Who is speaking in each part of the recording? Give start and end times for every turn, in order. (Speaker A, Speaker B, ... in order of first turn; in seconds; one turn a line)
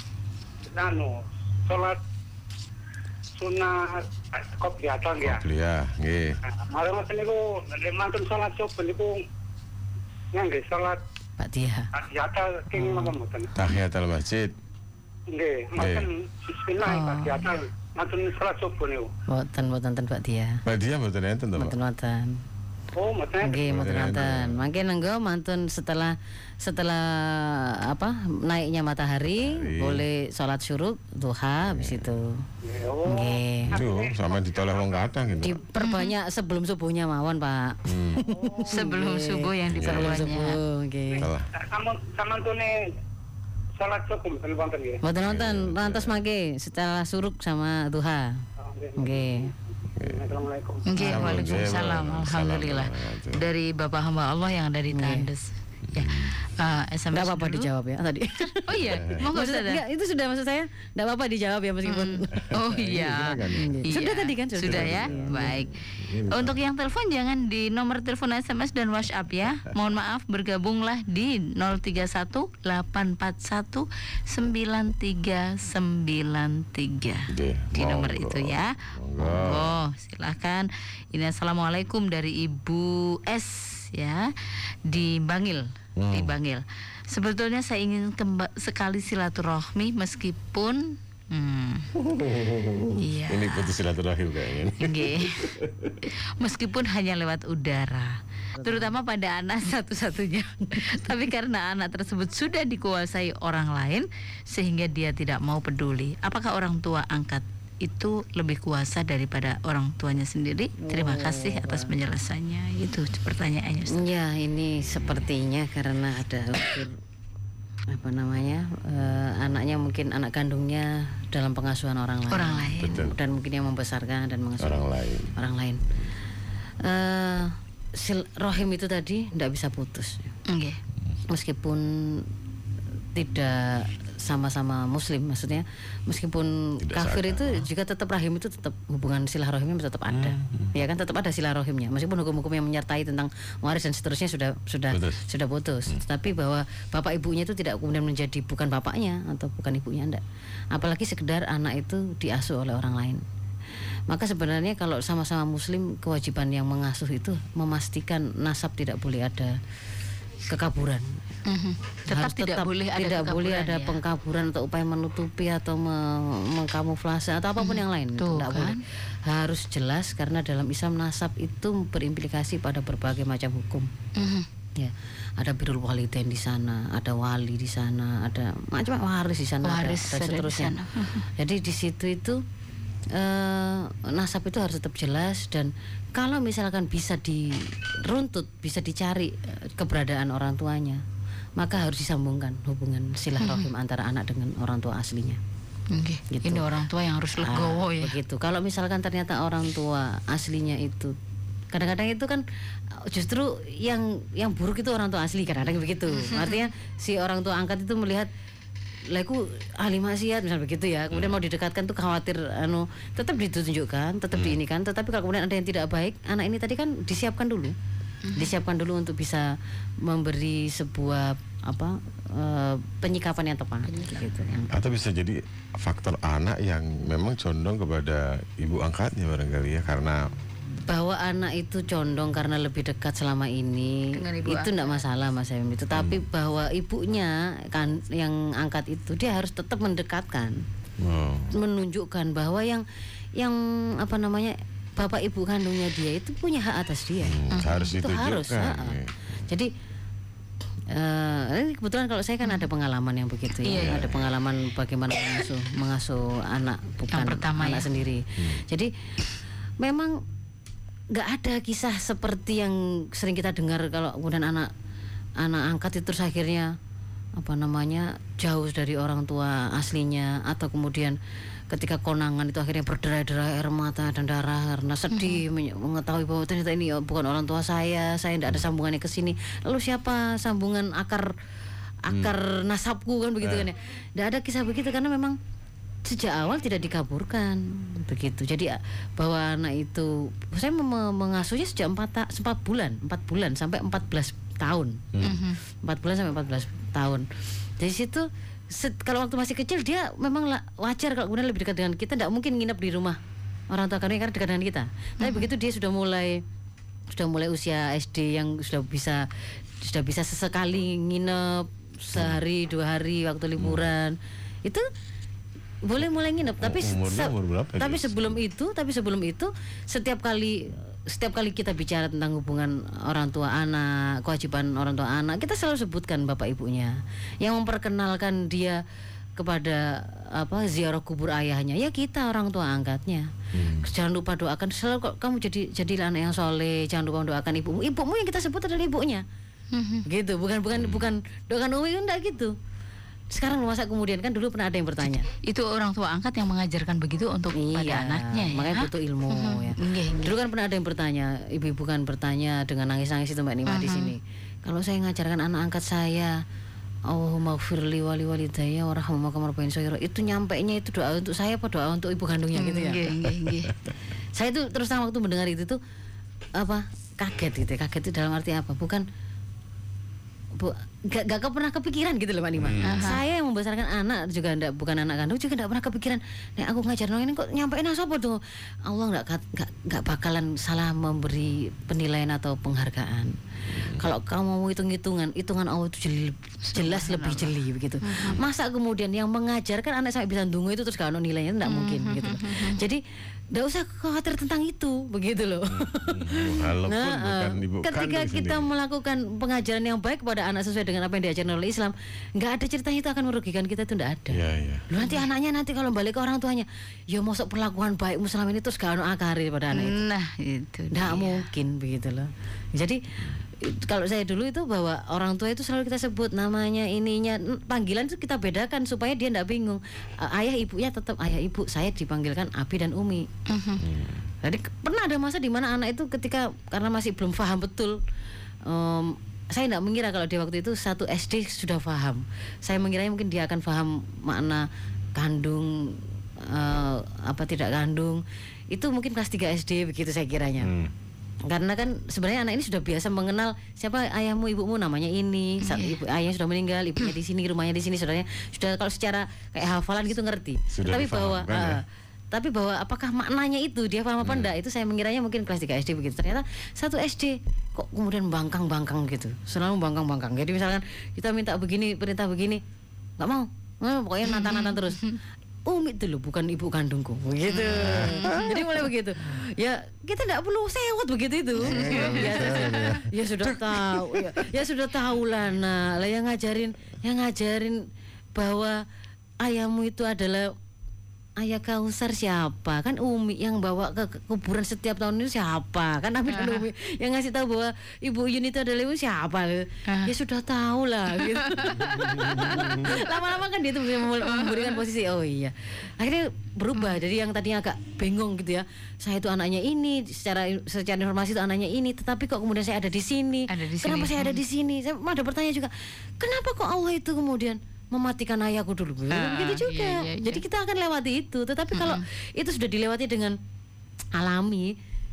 Speaker A: 0.7-2.0
Speaker A: 3.4-5.4
Speaker B: 5.2-6.4
Speaker A: 6.5-9.2
Speaker A: 10.3-11.0
Speaker C: 11.4-11.9
Speaker A: 12.0-13.5
Speaker C: 12.8-13.1
Speaker B: 13.6-14.5
Speaker A: 15.3-19.1
Speaker B: 15.8-16.1
Speaker D: 16.8-17.5
Speaker C: 19.3-20.6
Speaker B: 20.7-21.7
Speaker C: 21.6-22.4
Speaker A: 23.0-23.6
Speaker C: 23.4-32.4
Speaker B: 23.6-24.6
Speaker B: 29.4-30.1
Speaker B: 31.6-32.1
Speaker A: 32.6-35.0
Speaker C: 33.0-33.7
Speaker B: 33.7-35.6
Speaker C: 35.4-41.3
Speaker D: 35.8-36.2
Speaker B: 37.9-38.2
Speaker A: 38.3-38.7
Speaker D: 38.7-40.6
Speaker B: 39.7-40.2
Speaker A: 41.2-42.8
Speaker B: 41.2-41.5
Speaker A: 43.8-45.0
Speaker C: 45.0-48.4
Speaker B: 45.2-46.2
Speaker A: 48.6-51.0
Speaker C: 49.0-49.5
Speaker D: 50.9-57.7
Speaker B: 51.0-53.4
Speaker C: 54.9-55.3
Speaker B: 56.0-56.3
Speaker C: 57.1-62.5
Speaker D: 58.6-59.8
Speaker B: 58.8-59.2
Speaker D: 61.9-84.3
Speaker B: 62.3-63.9
Speaker C: 63.5-65.6
Speaker B: 64.6-66.6
Speaker B: 77.3-79.8
Speaker D: 84.8-91.9
Speaker B: 86.0-86.3
Speaker B: 92.0-96.0
Speaker D: 93.0-93.8
Speaker D: 94.8-95.5
Speaker D: 96.1-114.0
Speaker C: 98.6-98.9
Speaker C: 110.8-111.9
Speaker C: 113.9-117.0
Speaker C: 117.9-125.8
Speaker D: 122.3-123.0
Speaker B: 122.7-123.2
Speaker B: 124.6-125.4
Speaker C: 126.8-130.3
Speaker D: 130.5-130.8
Speaker C: 131.3-132.3
Speaker C: 133.1-153.2
Speaker B: 136.8-137.7
Speaker B: 140.1-140.7
Speaker B: 144.9-145.2
Speaker C: 154.1-159.6
Speaker C: 160.5-161.2
Speaker D: 161.5-164.0
Speaker C: 162.1-173.9
Speaker D: 167.6-168.8
Speaker D: 174.2-174.5
Speaker C: 174.8-180.8
Speaker D: 179.6-181.3
Speaker C: 181.4-182.4
Speaker C: 183.1-191.0
Speaker C: 191.6-195.4
Speaker D: 193.4-193.7
Speaker D: 195.9-198.2
Speaker C: 196.3-196.7
Speaker C: 197.4-201.2
Speaker C: 201.7-208.3
Speaker D: 206.1-206.7
Speaker C: 209.1-217.7
Speaker D: 218.2-218.6
Speaker C: 218.3-219.5
Speaker C: 220.0-224.7
Speaker B: 224.7-230.3
Speaker C: 230.9-240.6
Speaker D: 234.1-235.0
Speaker B: 235.9-236.2
Speaker B: 241.0-241.5
Speaker C: 241.5-242.8
Speaker C: 243.4-249.7
Speaker B: 247.2-249.1
Speaker D: 247.5-247.9
Speaker C: 250.9-258.9
Speaker D: 252.4-252.7
Speaker D: 253.6-254.1
Speaker B: 253.8-254.3
Speaker D: 257.1-257.9
Speaker C: 259.8-260.2
Speaker C: 261.1-264.7
Speaker C: 265.4-266.7
Speaker C: 267.4-271.2
Speaker C: 271.7-281.3
Speaker D: 275.1-275.4
Speaker C: 282.1-285.4
Speaker B: 283.4-283.7
Speaker C: 286.1-295.0
Speaker B: 295.1-295.4
Speaker D: 295.2-295.6
Speaker C: 295.8-297.3
Speaker C: 297.8-303.2
Speaker C: 303.7-306.4
Speaker D: 305.2-305.5
Speaker C: 307.1-309.3
Speaker C: 309.8-314.9
Speaker B: 313.6-313.9
Speaker C: 315.9-328.8
Speaker B: 316.6-318.3
Speaker C: 329.4-339.2
Speaker B: 333.5-333.9
Speaker D: 339.7-340.1
Speaker C: 340.1-342.6
Speaker B: 340.8-341.1
Speaker C: 343.3-345.3
Speaker D: 345.4-350.4
Speaker C: 347.6-356.4
Speaker D: 353.7-354.1
Speaker C: 357.1-363.3
Speaker D: 362.5-363.7
Speaker C: 364.4-365.8
Speaker C: 366.6-369.0
Speaker C: 370.6-393.0
Speaker B: 372.6-373.1
Speaker D: 372.8-373.2
Speaker B: 383.7-384.0
Speaker D: 386.6-388.4
Speaker D: 391.6-392.8
Speaker C: 393.5-410.0
Speaker B: 395.7-398.7
Speaker B: 404.3-404.9
Speaker D: 405.0-405.3
Speaker D: 409.7-411.4
Speaker C: 410.9-423.3
Speaker D: 423.5-423.9
Speaker B: 423.8-424.2
Speaker C: 424.4-428.0
Speaker C: 428.7-440.7
Speaker B: 440.6-440.9
Speaker C: 441.5-462.6
Speaker D: 445.6-446.0
Speaker B: 450.7-451.8
Speaker B: 454.2-454.5
Speaker C: 463.2-465.1
Speaker D: 464.2-465.2
Speaker C: 465.7-478.8
Speaker D: 467.5-468.7
Speaker B: 467.8-468.5
Speaker D: 471.6-473.0
Speaker B: 471.6-474.4
Speaker C: 479.4-480.5
Speaker C: 481.4-513.4
Speaker D: 486.3-486.7
Speaker D: 489.9-490.1
Speaker D: 491.1-493.0
Speaker B: 492.2-492.6
Speaker D: 494.2-494.8
Speaker D: 503.5-504.4
Speaker D: 509.1-510.4
Speaker D: 511.7-512.0
Speaker C: 514.1-514.7